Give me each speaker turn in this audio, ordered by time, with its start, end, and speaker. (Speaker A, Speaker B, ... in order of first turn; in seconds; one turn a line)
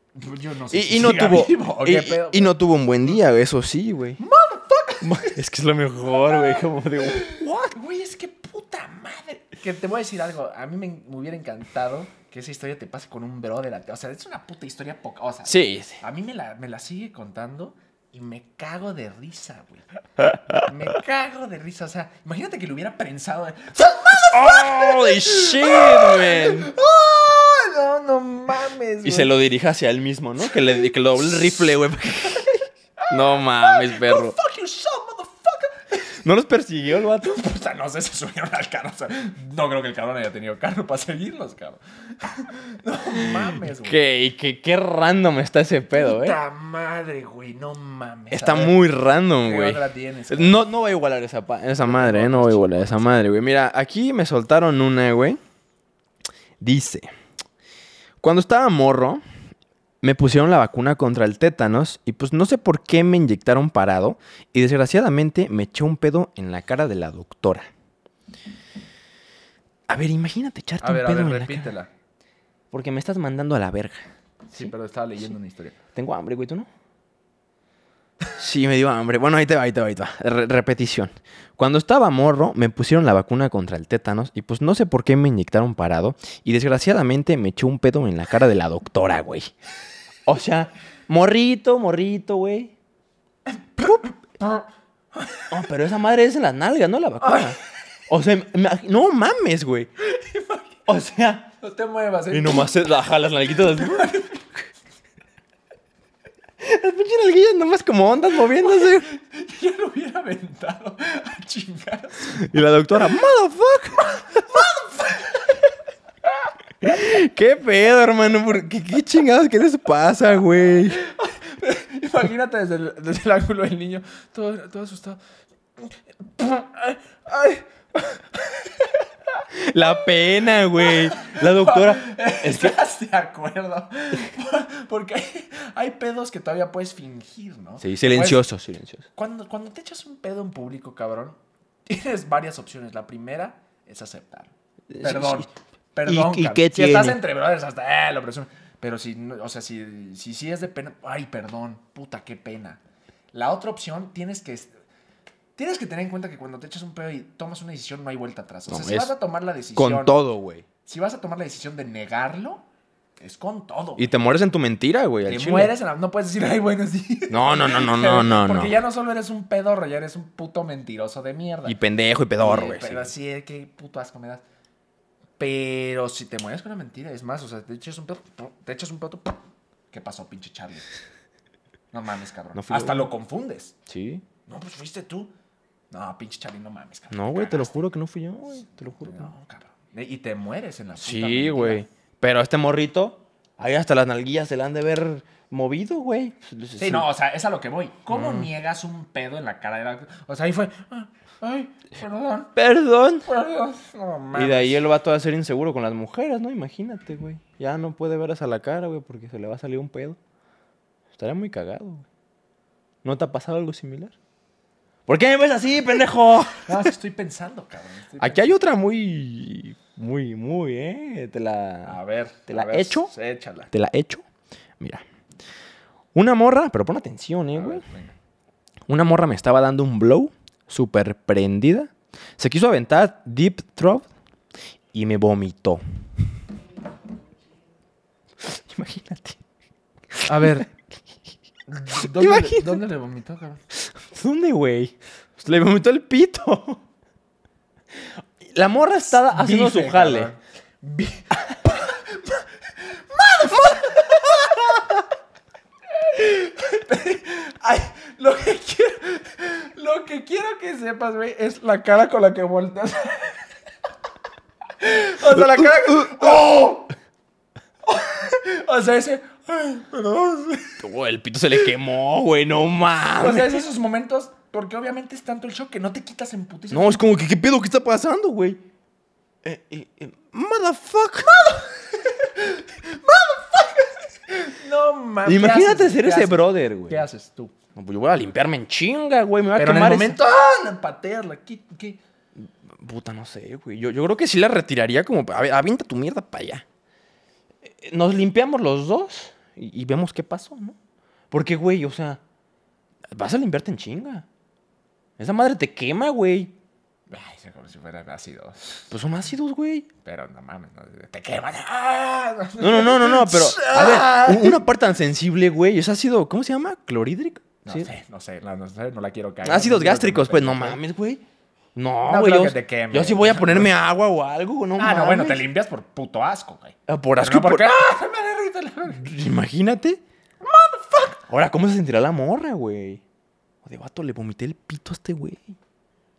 Speaker A: 0.2-3.2
Speaker B: 0.7-4.2
Speaker A: 4.2-5.4
Speaker B: 5.0-7.8
Speaker A: 6.2-19.9
Speaker B: 15.4-16.0
Speaker B: 20.2-20.6
Speaker A: 20.5-29.4
Speaker B: 24.3-26.7
Speaker B: 29.0-34.4
Speaker A: 33.1-36.2
Speaker B: 36.2-37.4
Speaker A: 37.2-44.0
Speaker B: 43.7-46.4
Speaker A: 45.9-48.8
Speaker B: 48.3-55.4
Speaker A: 49.4-50.6
Speaker A: 51.8-53.1
Speaker B: 56.6-57.1
Speaker B: 58.2-59.2
Speaker B: 60.0-67.7
Speaker B: 69.9-71.7
Speaker A: 70.8-71.9
Speaker B: 72.7-74.1
Speaker A: 74.5-75.8
Speaker B: 76.0-76.7
Speaker B: 78.4-89.5
Speaker B: 90.3-92.7
Speaker A: 93.5-95.5
Speaker B: 95.5-97.6
Speaker A: 97.2-97.5
Speaker B: 98.1-99.9
Speaker A: 100.0-100.8
Speaker B: 100.9-101.5
Speaker A: 101.6-102.8
Speaker B: 102.3-104.2
Speaker A: 103.5-104.5
Speaker B: 106.6-109.1
Speaker A: 108.6-112.5
Speaker B: 112.3-114.5
Speaker A: 114.0-115.7
Speaker B: 116.8-121.0
Speaker A: 120.8-125.2
Speaker A: 125.8-129.4
Speaker B: 129.5-132.8
Speaker A: 130.8-138.5
Speaker B: 137.8-139.1
Speaker A: 139.2-152.8
Speaker B: 144.9-145.5
Speaker B: 146.1-147.2
Speaker A: 153.3-154.7
Speaker A: 155.6-160.2
Speaker B: 158.7-159.1
Speaker B: 159.8-160.7
Speaker A: 160.8-162.7
Speaker A: 163.2-164.1
Speaker B: 164.0-165.7
Speaker A: 165.2-171.8
Speaker B: 167.3-168.8
Speaker B: 171.7-173.1
Speaker A: 172.4-174.4
Speaker A: 175.4-180.9
Speaker A: 181.9-183.8
Speaker B: 182.6-183.1
Speaker B: 183.9-184.2
Speaker A: 184.5-185.3
Speaker A: 185.9-187.8
Speaker B: 187.1-189.3
Speaker A: 189.0-191.8
Speaker B: 191.0-197.1
Speaker A: 196.8-202.5
Speaker B: 198.1-198.5
Speaker B: 202.6-203.3
Speaker A: 203.2-204.8
Speaker B: 204.3-210.2
Speaker B: 211.1-212.1
Speaker B: 213.0-214.2
Speaker B: 215.1-216.9
Speaker A: 216.7-218.6
Speaker B: 218.2-223.1
Speaker A: 221.9-223.7
Speaker B: 223.7-224.2
Speaker B: 226.2-227.8
Speaker A: 227.5-228.2
Speaker B: 228.9-234.1
Speaker B: 234.9-235.8
Speaker B: 238.4-239.4
Speaker B: 240.1-240.6
Speaker A: 240.3-240.7
Speaker A: 241.7-243.6
Speaker B: 242.0-242.8
Speaker B: 243.8-246.8
Speaker B: 247.9-250.3
Speaker A: 249.1-255.1
Speaker B: 254.6-254.9
Speaker A: 255.9-263.4
Speaker A: 264.8-266.9
Speaker B: 265.3-266.6
Speaker A: 267.9-270.8
Speaker B: 270.8-273.6
Speaker A: 273.2-277.1
Speaker B: 276.7-278.6
Speaker B: 279.4-281.4
Speaker A: 281.2-287.6
Speaker B: 285.2-287.1
Speaker B: 287.8-290.2
Speaker A: 289.6-292.0
Speaker B: 292.4-296.6
Speaker B: 297.6-300.8
Speaker B: 301.3-302.2
Speaker B: 303.1-304.3
Speaker B: 305.2-306.6
Speaker A: 307.1-309.0
Speaker B: 308.9-309.9
Speaker A: 310.0-314.6
Speaker B: 312.6-317.9
Speaker A: 317.6-320.8
Speaker B: 319.4-321.2
Speaker B: 321.8-325.5
Speaker A: 322.1-323.7
Speaker A: 324.8-329.1
Speaker B: 326.9-327.7
Speaker B: 328.9-330.0
Speaker A: 330.4-331.2
Speaker B: 331.3-333.0
Speaker B: 333.6-335.6